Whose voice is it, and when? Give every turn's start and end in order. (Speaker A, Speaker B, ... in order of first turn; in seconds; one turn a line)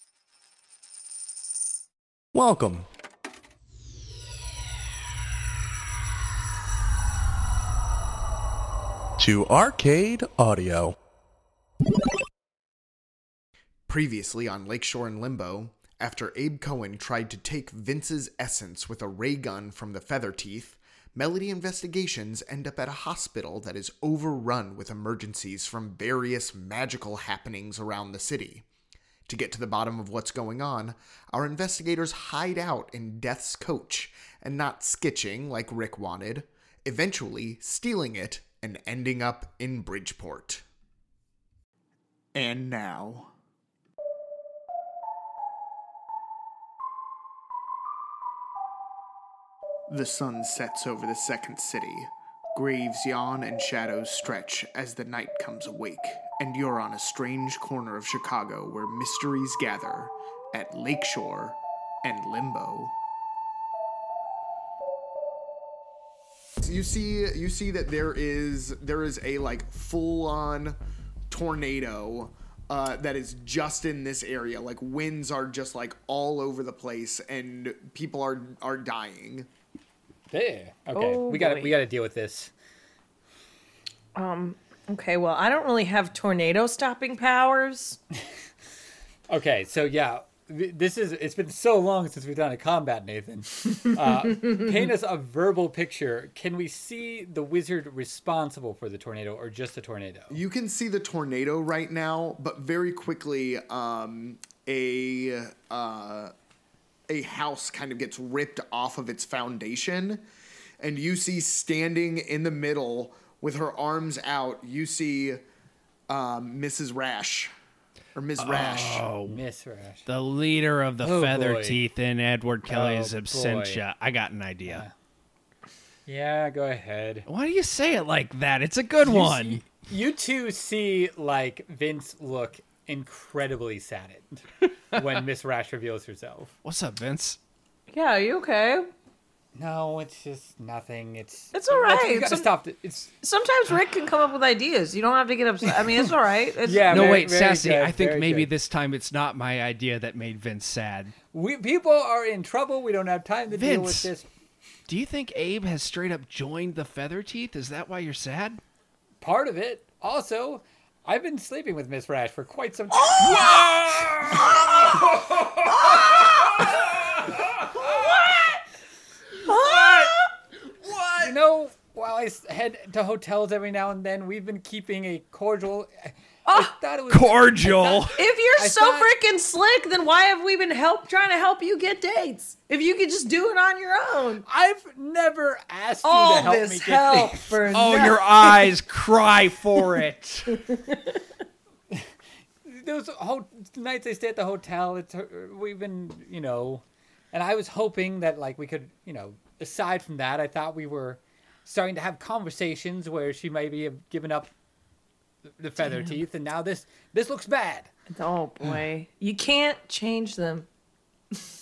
Speaker A: 2.3-2.9
Speaker A: 9.2-10.9
Speaker B: 13.9-28.6
Speaker B: 29.3-40.6
Speaker B: 42.3-43.3
Speaker B: 49.9-62.9
Speaker B: 66.6-70.8
Speaker B: 71.3-79.5
Speaker C: 80.3-82.5
Speaker D: 80.9-81.7
Speaker D: 84.1-88.0
Speaker C: 89.3-100.4
Speaker B: 100.3-106.3
Speaker B: 107.1-110.2
Speaker B: 110.8-115.4
Speaker B: 116.1-117.5
Speaker B: 118.1-119.0
Speaker E: 118.4-119.4
Speaker C: 118.5-120.0
Speaker E: 120.0-124.8
Speaker C: 121.0-121.8
Speaker C: 122.7-123.8
Speaker C: 124.7-124.9
Speaker C: 126.0-127.2
Speaker E: 127.3-129.6
Speaker C: 129.1-136.5
Speaker E: 136.6-137.4
Speaker D: 137.9-138.9
Speaker C: 139.6-143.1
Speaker D: 141.5-142.5
Speaker D: 143.2-147.2
Speaker C: 146.6-148.5
Speaker E: 146.9-151.1
Speaker C: 151.3-154.3
Speaker E: 153.5-154.1
Speaker E: 154.9-158.6
Speaker C: 159.2-163.6
Speaker D: 163.0-163.6
Speaker E: 163.2-168.3
Speaker D: 165.9-166.6
Speaker D: 167.7-168.4
Speaker E: 169.4-170.2
Speaker D: 169.5-170.3
Speaker E: 170.8-171.3
Speaker C: 171.2-179.1
Speaker D: 176.4-176.7
Speaker E: 177.1-178.2
Speaker D: 178.2-184.4
Speaker C: 184.4-187.7
Speaker D: 186.0-188.7
Speaker E: 187.7-190.6
Speaker D: 190.5-191.2
Speaker C: 192.6-204.5
Speaker C: 205.6-207.9
Speaker D: 208.1-210.7